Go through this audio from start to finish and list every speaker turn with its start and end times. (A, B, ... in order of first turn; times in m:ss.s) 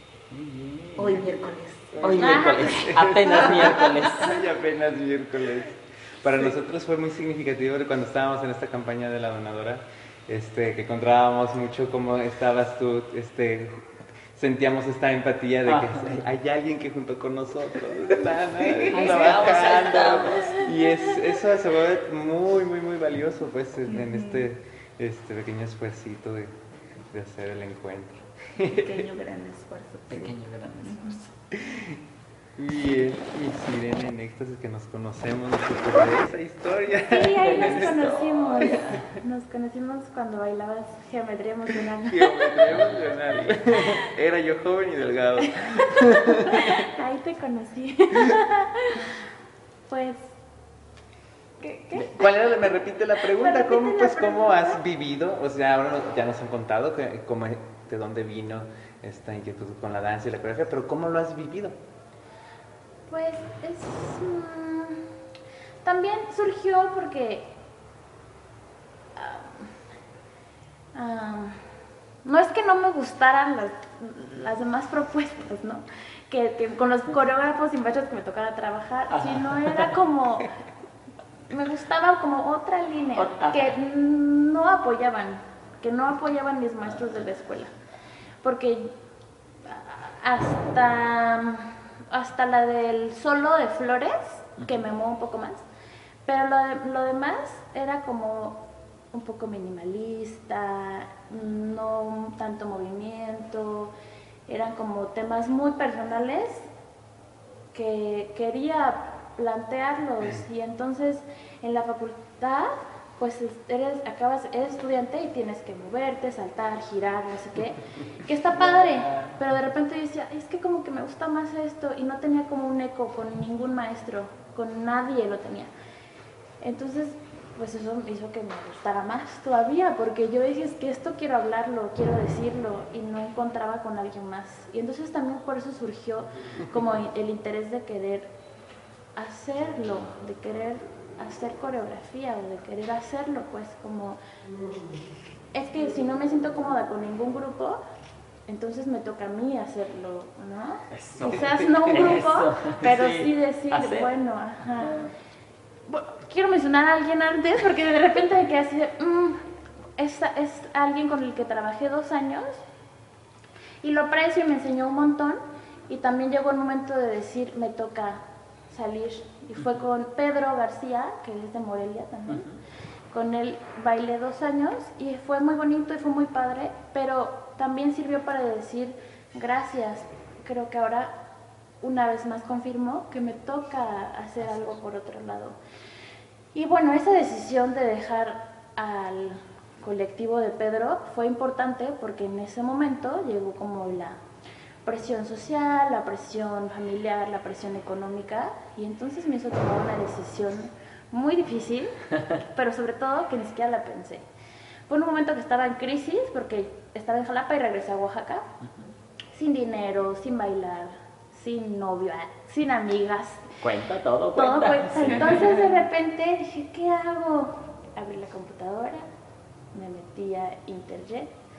0:00.3-0:01.3 A
0:01.0-0:02.6 B
0:02.0-0:26.5 C
0:02.0-0:04.3 A
0:02.2-0:02.9 D
0:03.2-0:04.1 B
0:15.6-0:16.2 A
0:18.6-0:20.2 B
0:18.9-0:20.9 A
0:23.9-0:24.5 B
0:27.1-0:29.1 C
0:28.6-0:31.2 B
0:30.1-0:31.3 A
0:31.5-0:32.0 C
0:32.6-0:38.0 C
0:37.0-0:43.0 D
0:37.4-0:39.0 A
0:42.1-0:46.9 C
0:43.7-0:44.0 D
0:45.6-0:49.1 D
0:49.9-0:50.3 D
0:51.6-0:52.3 D
0:52.0-1:01.8 C
0:53.2-0:54.8 D
1:03.1-1:05.0 D
1:05.8-1:07.5 D
1:09.2-1:09.7 D
1:10.9-1:11.6 D
1:12.2-1:20.5 D
1:19.1-1:20.0 A
1:21.5-1:27.7 D
1:23.2-1:23.8 A
1:28.4-1:28.9 D
1:29.6-1:35.6 D
1:36.2-1:43.9 D
1:44.5-1:46.7 D
1:47.7-2:05.7 D
1:58.5-1:59.4 A
2:06.6-2:18.3 D
2:19.2-2:24.2 D
2:25.5-2:27.8 D
2:28.5-2:35.1 D
2:30.9-2:34.1 A
2:34.8-2:35.1 A
2:35.9-2:39.4 D
2:40.0-2:42.6 D
2:43.8-2:52.5 D
2:52.3-2:52.6 A
2:53.1-3:01.1 D
3:01.8-3:05.6 D
3:06.5-3:14.2 D
3:14.8-3:24.2 D
3:24.9-3:28.5 D
3:29.3-3:33.5 D
3:33.6-3:35.5 A
3:34.3-3:39.1 D
3:39.7-3:41.3 D